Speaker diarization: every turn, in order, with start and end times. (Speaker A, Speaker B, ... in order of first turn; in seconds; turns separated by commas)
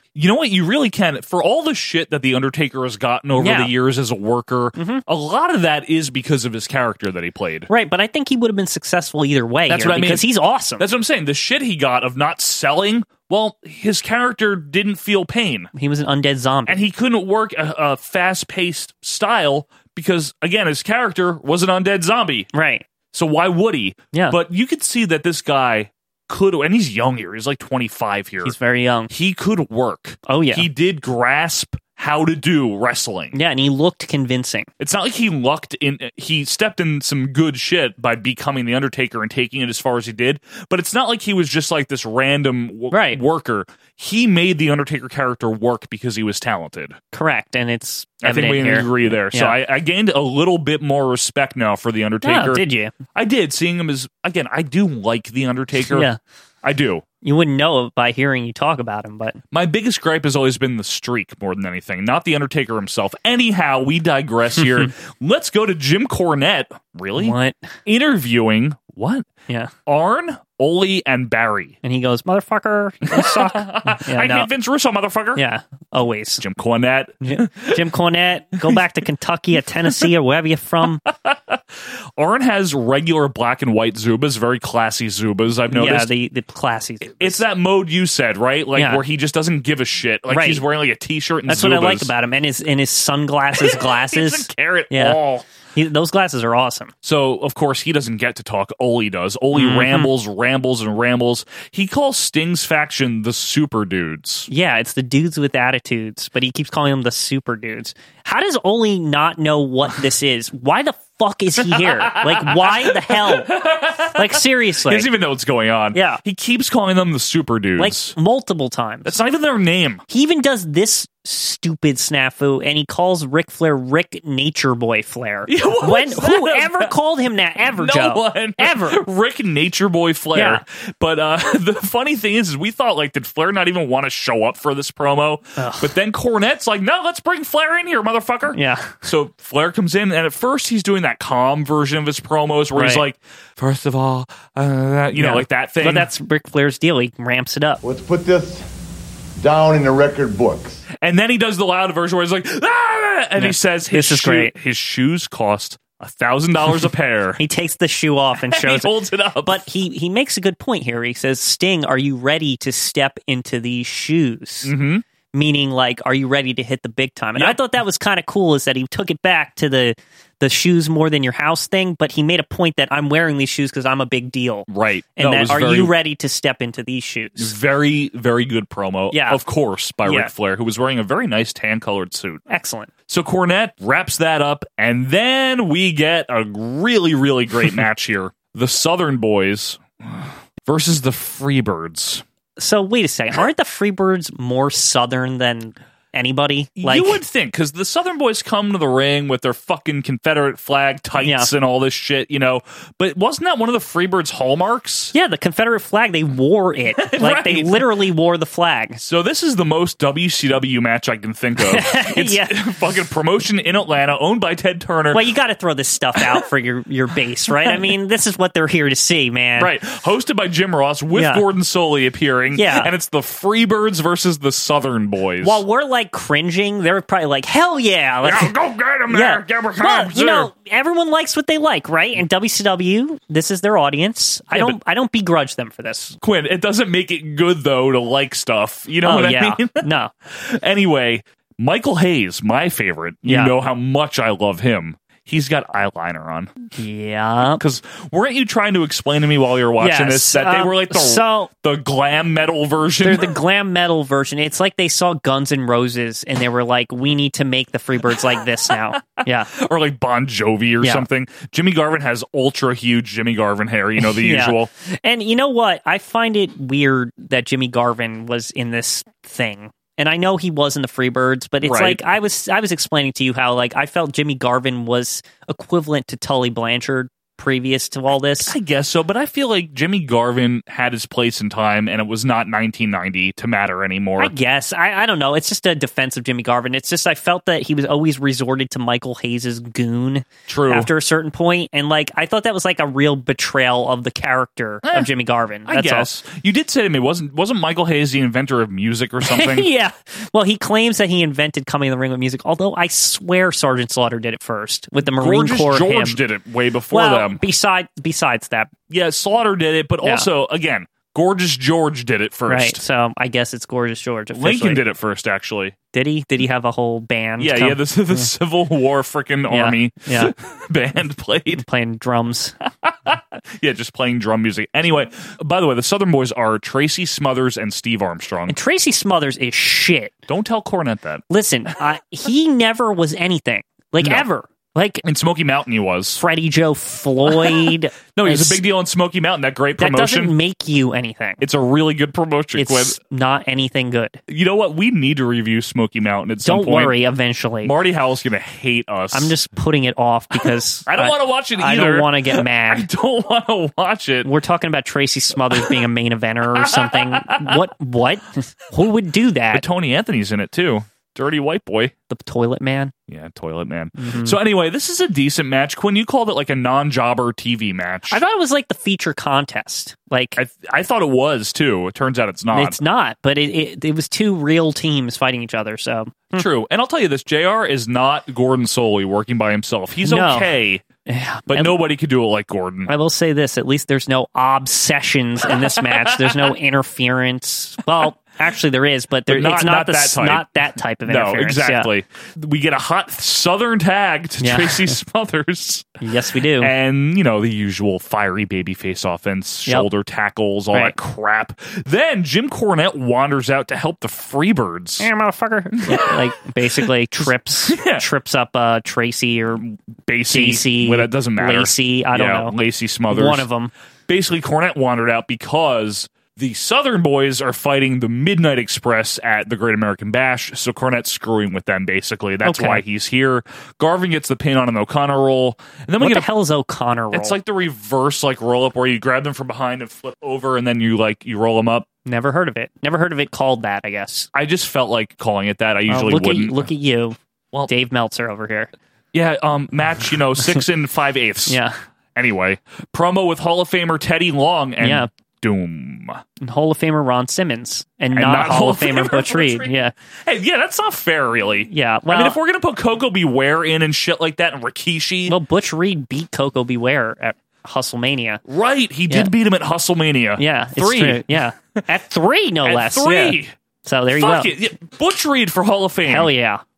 Speaker A: 0.1-7.7, Speaker B: 3.4-3.7, Speaker B: 4.8-5.0, Speaker B: 7.7-10.8, Speaker A: 9.7-10.3, Speaker A: 10.8-15.7, Speaker B: 15.7-16.8, Speaker A: 16.7-22.5, Speaker B: 22.5-22.8, Speaker A: 23.1-28.5, Speaker B: 28.4-29.1, Speaker A: 29.1-33.4, Speaker B: 30.3-30.6, Speaker B: 33.3-34.7, Speaker A: 34.8-47.0, Speaker B: 42.9-43.2, Speaker B: 47.1-49.5, Speaker A: 48.2-52.6, Speaker B: 52.2-52.9, Speaker A: 53.1-56.1, Speaker B: 55.9-56.2, Speaker A: 56.6-57.0, Speaker B: 57.2-59.4, Speaker A: 59.5-67.3, Speaker B: 64.6-64.9, Speaker B: 67.2-67.7, Speaker A: 67.8-69.2, Speaker A: 69.9-71.8, Speaker B: 71.8-74.5, Speaker A: 73.1-75.4, Speaker B: 75.3-76.4, Speaker A: 76.4-77.8, Speaker B: 77.2-81.0, Speaker A: 81.0-81.6, Speaker A: 82.2-86.1, Speaker B: 85.7-87.4, Speaker A: 87.2-92.1, Speaker B: 88.8-89.0, Speaker B: 90.3-90.6, Speaker B: 91.5-95.2, Speaker A: 93.5-95.4, Speaker B: 95.7-96.9, Speaker A: 97.0-104.5, Speaker B: 99.5-100.1, Speaker B: 104.5-113.5, Speaker A: 111.6-118.1, Speaker B: 114.2-115.1, Speaker B: 115.9-116.2, Speaker B: 117.8-119.1, Speaker A: 119.0-120.0, Speaker B: 120.1-129.0, Speaker A: 125.5-126.9, Speaker A: 127.7-146.1, Speaker B: 130.3-130.6, Speaker B: 135.6-135.9, Speaker B: 138.5-138.9, Speaker B: 142.7-143.0, Speaker B: 145.2-147.8, Speaker C: 147.8-148.7, Speaker C: 149.4-150.8, Speaker A: 151.0-157.4, Speaker B: 153.4-154.5, Speaker B: 157.4-158.9, Speaker A: 158.5-159.6, Speaker B: 159.4-164.7, Speaker A: 164.6-165.0, Speaker B: 165.3-177.5, Speaker A: 174.7-175.9, Speaker A: 177.4-182.4, Speaker B: 179.1-179.4, Speaker B: 180.0-180.3, Speaker B: 182.5-182.9, Speaker A: 183.1-192.2, Speaker B: 192.6-197.2, Speaker A: 196.8-205.1, Speaker B: 201.2-201.5, Speaker B: 205.1-209.0, Speaker A: 207.0-207.9, Speaker A: 209.0-215.2, Speaker B: 211.7-212.5, Speaker B: 215.1-219.7, Speaker A: 217.6-217.9, Speaker A: 219.6-225.6, Speaker B: 221.1-221.4, Speaker B: 222.6-222.9, Speaker B: 225.4-228.5, Speaker A: 228.2-230.5, Speaker B: 229.1-236.2, Speaker A: 234.5-234.8, Speaker A: 236.2-246.5, Speaker B: 239.0-240.1, Speaker B: 243.2-243.5, Speaker B: 246.8-247.6, Speaker A: 247.5-253.4, Speaker B: 249.8-251.5, Speaker B: 253.0-259.5, Speaker A: 259.0-264.7, Speaker B: 264.0-278.5, Speaker A: 271.6-272.0, Speaker A: 278.4-284.3, Speaker B: 284.2-296.1, Speaker A: 290.5-290.9, Speaker A: 294.8-295.1, Speaker A: 295.7-299.7, Speaker B: 299.2-306.2, Speaker A: 305.0-307.4, Speaker B: 306.9-308.7, Speaker A: 308.9-312.8, Speaker B: 312.5-314.8, Speaker A: 314.4-315.7, Speaker B: 315.9-318.3, Speaker A: 317.4-321.6, Speaker B: 319.5-320.3, Speaker B: 321.6-322.5, Speaker A: 322.8-328.6, Speaker B: 328.5-330.1, Speaker A: 330.3-331.2, Speaker B: 331.3-335.0, Speaker A: 334.0-334.2, Speaker A: 335.0-336.2, Speaker B: 336.2-338.6, Speaker A: 337.3-340.3, Speaker B: 339.8-341.4, Speaker A: 341.4-343.0, Speaker B: 342.6-344.2, Speaker A: 344.3-346.9, Speaker B: 346.4-347.7, Speaker A: 347.6-349.3, Speaker B: 349.1-352.9, Speaker A: 350.4-354.3, Speaker B: 354.2-359.6, Speaker A: 356.6-357.6, Speaker A: 359.5-361.9, Speaker B: 362.1-362.9, Speaker A: 363.1-368.2, Speaker B: 363.9-364.4, Speaker B: 368.1-370.4, Speaker A: 370.4-372.8, Speaker B: 372.5-376.4, Speaker A: 376.3-380.8, Speaker B: 380.0-380.5, Speaker B: 381.1-381.7, Speaker A: 381.5-382.9, Speaker B: 382.9-391.9, Speaker A: 385.5-386.5, Speaker A: 389.3-390.5, Speaker A: 391.1-396.0, Speaker B: 394.4-394.9, Speaker B: 396.0-396.7, Speaker A: 396.6-405.1, Speaker B: 405.0-409.7, Speaker A: 405.9-406.2, Speaker A: 406.8-408.0, Speaker A: 410.0-413.4, Speaker B: 410.3-412.5, Speaker B: 413.1-413.7, Speaker A: 414.1-426.3, Speaker B: 422.4-422.8, Speaker B: 426.0-427.3, Speaker A: 427.1-431.9, Speaker B: 432.0-434.3, Speaker A: 434.3-436.7, Speaker B: 435.9-437.2, Speaker B: 437.7-438.7, Speaker A: 439.1-441.6, Speaker B: 441.5-441.7, Speaker A: 442.1-446.2, Speaker B: 444.8-445.1, Speaker B: 446.4-449.9, Speaker A: 448.1-455.4, Speaker B: 451.7-452.4, Speaker B: 455.3-458.4, Speaker A: 458.4-461.8, Speaker B: 460.4-464.5, Speaker A: 462.6-463.5, Speaker A: 464.1-466.3, Speaker B: 466.1-466.6